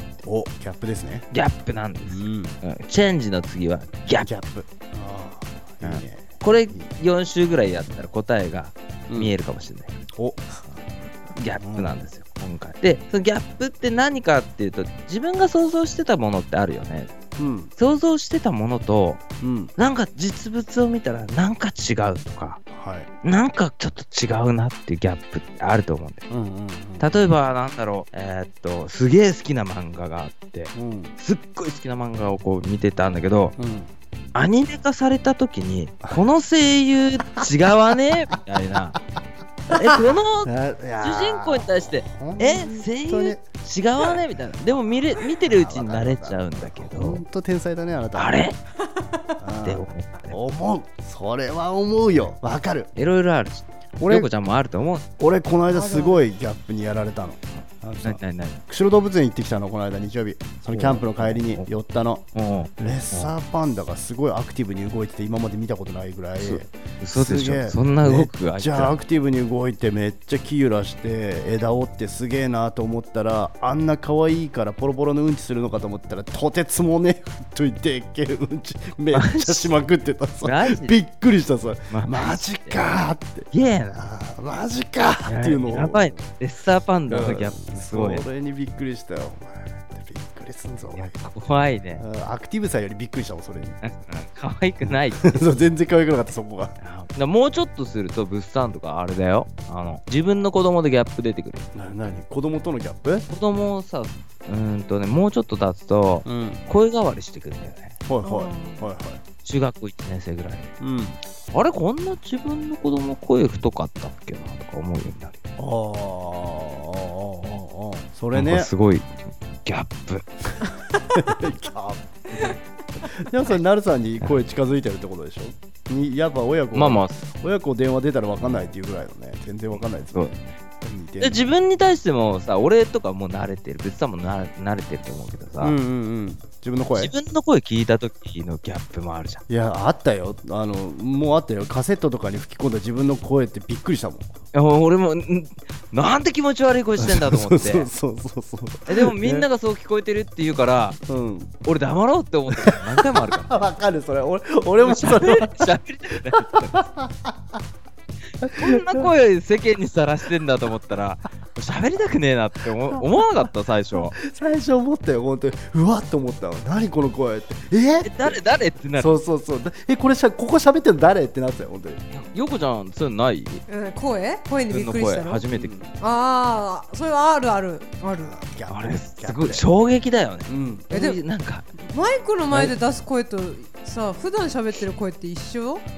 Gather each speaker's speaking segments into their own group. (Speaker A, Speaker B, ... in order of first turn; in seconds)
Speaker A: 0.2-1.2, 2.1-2.5, 4.2-6.9, 10.1-10.8, 11.6-11.9, 17.4-17.7, 19.4-19.7, 22.7-23.1, 26.3-27.1, 30.7-31.1, 33.6-33.9, 40.4-43.4, 44.0-44.2, 44.9-48.4, 49.4-52.9, 54.0-54.3, 55.2-62.2, 62.8-86.2, 87.1-91.2, 92.0-93.8, 95.2-96.8, 101.7-103.2, 106.2-106.6, 108.0-109.2, 110.8-111.2, 115.6-118.7, 121.1-122.4, 123.0-131.5, 135.6-137.1, 139.5-144.3, 147.0-149.5, 151.1-151.6, 152.5-157.6, 158.4-159.1, 162.9-163.2, 164.2-168.4, 168.9-172.0, 175.5-175.9, 178.2-179.7, 180.5-180.9
Speaker B: 1.3-4.3, 5.8-9.9, 11.3-17.1, 17.8-19.2, 19.8-22.6, 23.2-26.2, 27.0-33.5, 34.3-39.0, 39.7-47.2, 48.1-48.6, 49.6-50.4, 53.0-55.0, 58.0-58.6, 60.7-61.7, 62.3-63.3, 66.4-68.9, 79.1-79.7, 80.4-80.9, 81.9-82.9, 83.5-84.0, 85.2-88.2, 90.9-92.0, 93.8-95.4, 96.8-101.7, 103.3-108.0, 109.4-110.7, 111.5-115.4, 118.3-120.2, 126.7-127.3, 129.7-130.3, 131.2-135.8, 136.9-139.4, 144.5-147.9, 148.9-151.0, 151.6-153.5, 154.8-156.8, 158.4-164.2, 168.0-169.2, 172.1-173.6, 174.7-175.7, 178.7-181.6
Speaker C: 55.7-56.2, 108.2-108.8, 173.7-175.4, 176.0-178.4, 180.9-181.2, 181.8-185.8